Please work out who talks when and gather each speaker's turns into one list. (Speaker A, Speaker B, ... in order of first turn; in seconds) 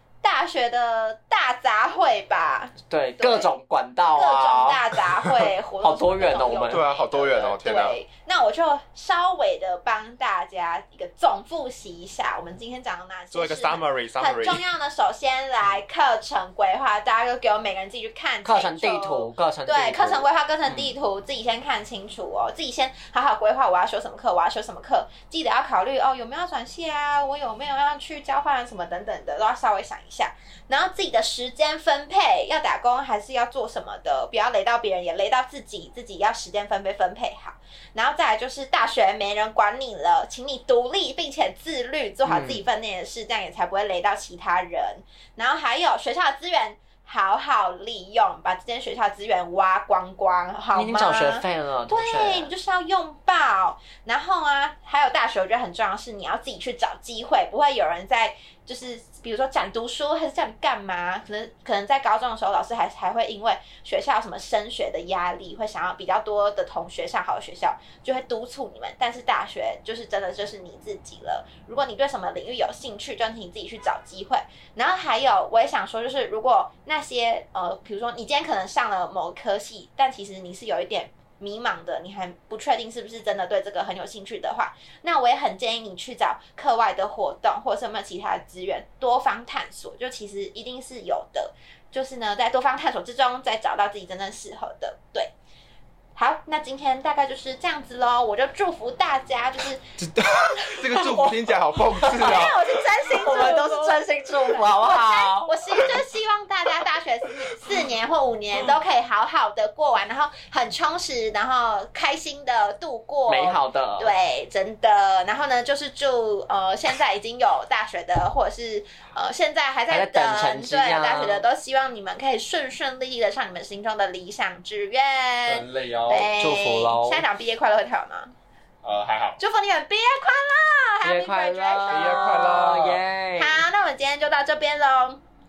Speaker A: 0.2-3.5, 4.1-95.3, 96.2-99.8, 100.3-100.8, 102.1-128.3, 129.4-132.4, 133.3-135.2
Speaker B: 2.9-6.8, 18.4-20.3, 42.2-42.6, 50.7-52.5, 100.9-105.6, 113.3-114.1, 119.9-121.4, 126.4-127.2, 131.0-133.6
Speaker C: 6.7-8.0, 13.3-14.6, 100.0-102.6, 125.5-126.3, 128.8-129.4, 131.9-133.0